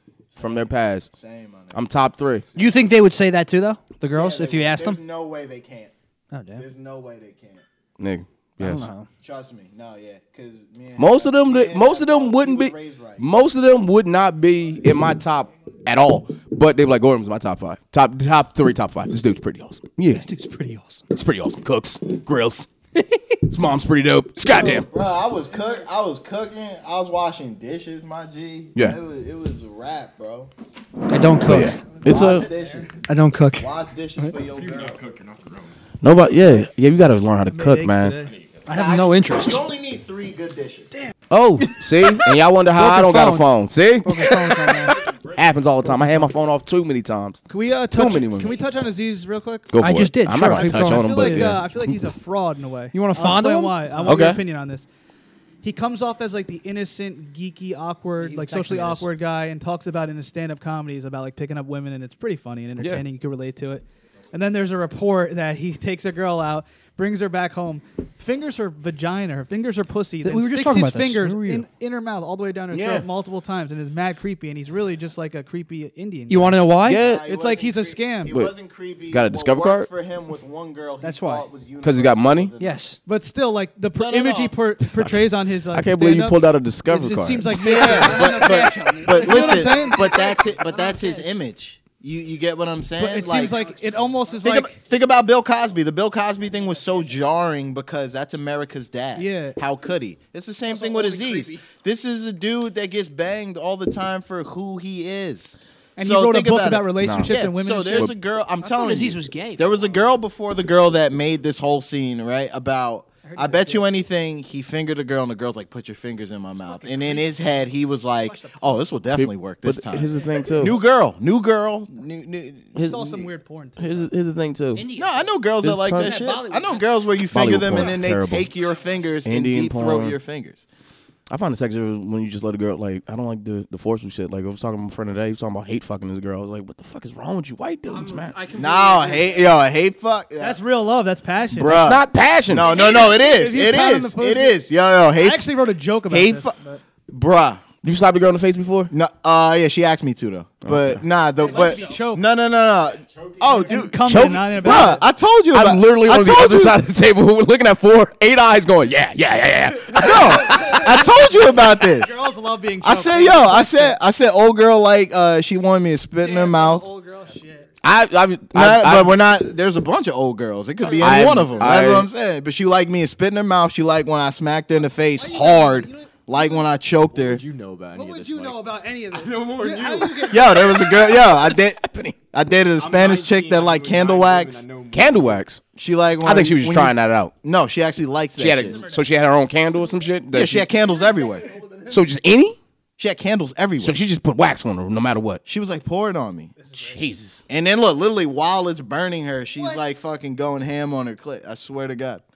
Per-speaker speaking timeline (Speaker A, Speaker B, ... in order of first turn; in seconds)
Speaker A: 0.3-1.9, 2.5-2.8, 4.1-5.9, 6.6-7.6, 9.2-13.3, 24.5-30.5, 32.0-32.9, 33.6-35.0, 38.7-41.0, 76.9-82.8, 84.0-84.6, 87.5-93.8, 94.4-122.8, 124.9-130.7, 138.5-140.6, 141.6-145.5, 146.1-146.5, 147.1-147.6, 148.9-156.8, 160.0-162.2, 162.8-166.9, 168.5-177.4, 180.2-181.8, 182.3-184.7, 185.8-188.8, 190.3-191.5, 193.0-194.0, 195.5-196.5, 197.5-202.2
Speaker B: 0.4-1.1, 1.7-2.5, 8.0-8.9, 11.0-20.3, 21.1-22.7, 23.5-24.9, 31.5-32.5, 36.0-38.2, 41.3-47.4, 47.9-48.7, 49.7-51.9, 54.0-54.4, 62.8-63.0, 72.7-73.1, 76.8-77.3, 79.1-79.9, 81.8-82.5, 85.7-87.6, 107.0-107.3, 119.1-120.8, 122.8-123.2, 123.8-124.9, 125.6-126.2, 127.3-128.5, 129.2-130.2, 131.3-138.3, 141.6-142.8, 147.8-148.9, 150.7-151.0, 154.1-155.0, 155.5-160.8, 167.8-169.2, 171.0-172.1, 180.8-182.2, 184.9-185.6, 186.2-187.3, 188.4-190.7, 191.9-192.6, 193.8-195.4, 196.8-197.4
Speaker C: 2.5-5.0, 6.3-6.6, 8.6-9.1, 20.1-21.1, 31.1-31.8, 33.1-33.7, 38.7-39.6, 42.7-43.5, 44.0-45.0, 45.9-46.2, 49.8-51.6, 52.9-54.3, 58.2-59.1, 70.2-71.7, 76.3-77.0, 81.0-81.5, 82.6-83.0, 108.6-109.9, 124.8-125.3, 125.9-126.9, 137.9-139.5
Speaker D: 34.5-35.8, 38.2-38.8, 44.9-45.8, 152.9-153.9, 177.1-180.5, 182.8-185.5
Speaker E: 37.5-38.3, 47.5-49.7, 50.4-54.9, 55.6-76.6, 77.2-78.3, 83.1-91.3, 93.0-94.8, 99.2-99.6, 106.0-108.1, 113.3-113.8, 116.6-118.9, 120.1-120.5, 122.7-124.1, 140.4-141.8, 142.6-144.6, 145.2-146.8, 151.4-152.2, 153.5-155.0, 160.5-160.8, 161.5-164.0, 166.2-167.7, 170.8-171.6, 174.8-176.6, 177.9-180.8, 188.6-190.1, 196.6-197.0, 199.6-199.9